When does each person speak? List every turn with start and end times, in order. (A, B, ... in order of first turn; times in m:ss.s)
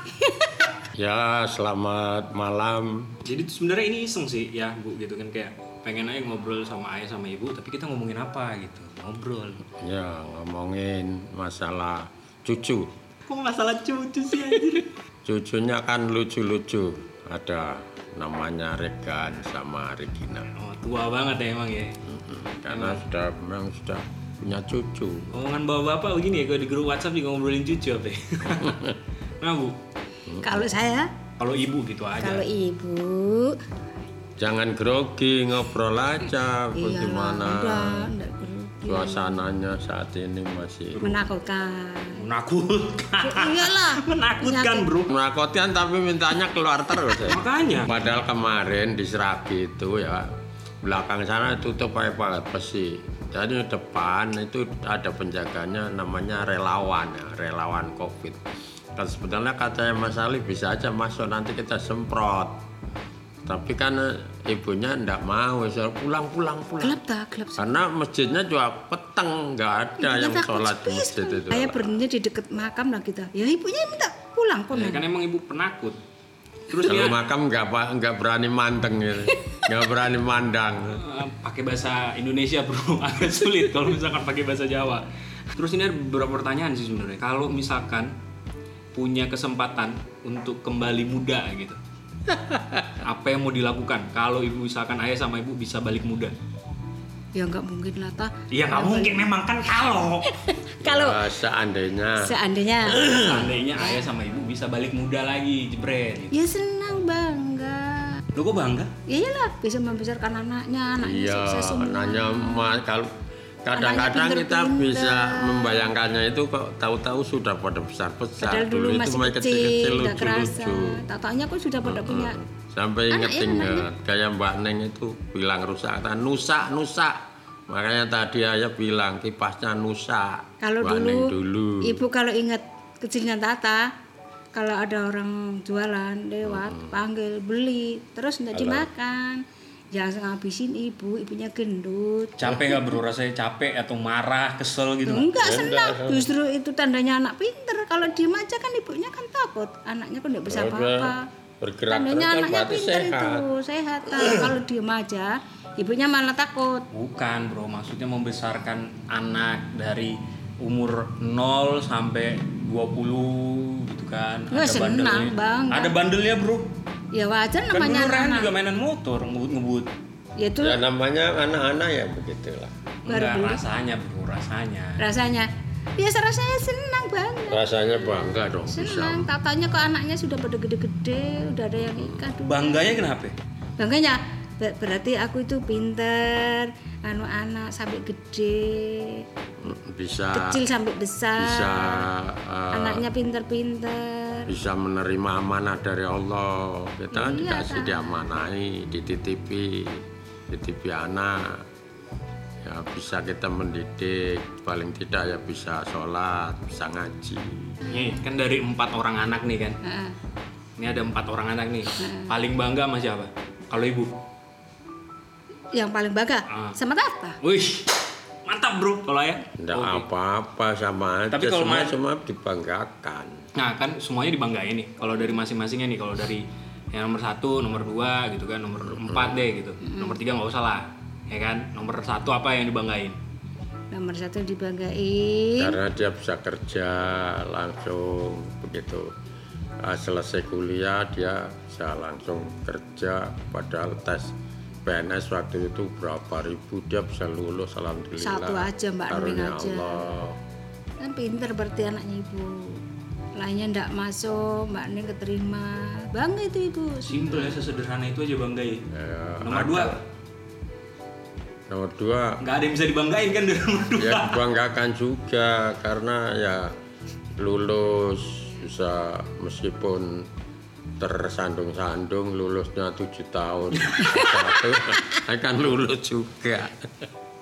0:00.9-0:03.2 A
0:03.2-0:09.6 B
0:09.8-0:12.9 A
0:13.3-0:14.9 B
0:15.2-0:20.5 A
0:20.6-0:22.0 B
0:22.0-0:25.3 A
0:22.7-0:23.0 B
0:25.3-0:29.8 B
0:30.3-0:30.7 A
0:30.4-0:31.1 C
0:31.4-0:32.4 B
0:32.2-0:33.6 C
0:34.4-0:38.1 A
0:36.7-0:39.5 C
0:38.8-0:41.1 A
0:41.0-0:42.2 C
0:42.2-0:45.1 B
0:43.2-0:44.9 C
0:45.1-0:50.3 A
0:47.2-0:48.1 B
0:50.8-0:58.4 A
0:59.0-1:02.6 A
1:03.5-1:07.0 A
1:06.8-1:07.7 C
1:07.6-1:12.0 A
1:10.0-1:15.0 C
1:14.7-1:16.0 B
1:16.7-1:17.2 B
1:16.9-1:21.0 A
1:20.9-1:28.1 B
1:28.9-1:31.8 B
1:32.3-1:32.9 A
1:33.0-1:36.3 B
1:37.4-1:39.3 C
1:38.5-1:40.3 B
1:40.3-1:41.2 C
1:40.8-1:42.3 A
1:42.2-1:44.0 C
1:42.9-1:46.3 B
1:46.3-1:48.2 C
1:48.3-1:48.9 B
1:49.1-1:52.7 C
1:51.0-1:53.1 A
1:53.6-2:01.0 A
1:53.8-1:55.9 C
1:58.4-2:02.4 C
2:01.8-2:12.0 A
2:03.1-2:03.9 C
2:10.6-2:13.8 C
2:14.5-2:19.4 C
2:16.4-2:17.0 A
2:18.5-2:18.9 A
2:19.9-2:22.4 C
2:22.4-2:25.3 B
2:25.0-2:31.2 C
2:25.3-2:26.3 A
2:30.5-2:33.5 A
2:31.9-2:36.8 C
2:34.2-2:34.5 A
2:36.9-2:46.7 B
2:44.5-2:46.0 C
2:47.1-2:48.5 C
2:47.7-2:49.9 B
2:50.4-2:50.8 C
2:50.6-2:52.7 A
2:53.1-2:55.0 B
2:53.1-2:53.6 C
2:55.0-2:57.6 C
2:57.5-2:59.3 A
2:58.7-3:03.0 C
3:01.8-3:02.2 A
3:02.4-3:03.4 B
3:03.8-3:09.2 C
3:09.6-3:10.6 A
3:10.3-3:12.1 C
3:11.4-3:13.1 A
3:12.7-3:14.5 C
3:14.5-3:21.6 A
3:17.1-3:18.3 C
3:22.6-3:27.8 A
3:27.9-3:29.8 B
3:29.8-3:30.2 C
3:30.8-3:34.1 B
3:32.0-3:32.4 C
3:35.7-3:37.4 C
3:37.4-3:37.9 B
3:38.5-3:40.1 B
3:39.6-3:43.4 A
3:41.3-3:42.0 B
3:43.6-3:53.2 B
3:49.0-3:49.5 A
3:49.8-3:50.2 C
3:53.9-3:55.8 C
3:55.6-3:59.1 A
3:59.8-4:04.3 A
4:04.9-4:10.4 A
4:08.2-4:10.1 C
4:11.0-4:12.8 C
4:13.4-4:17.6 C
4:17.1-4:18.8 B
4:18.9-4:20.0 A
4:19.4-4:20.0 B
4:21.7-4:22.4 A
4:22.4-4:24.4 B
4:24.0-4:26.8 A
4:27.4-4:30.3 A
4:31.0-4:36.9 A
4:33.8-4:34.3 B
4:34.1-4:35.0 C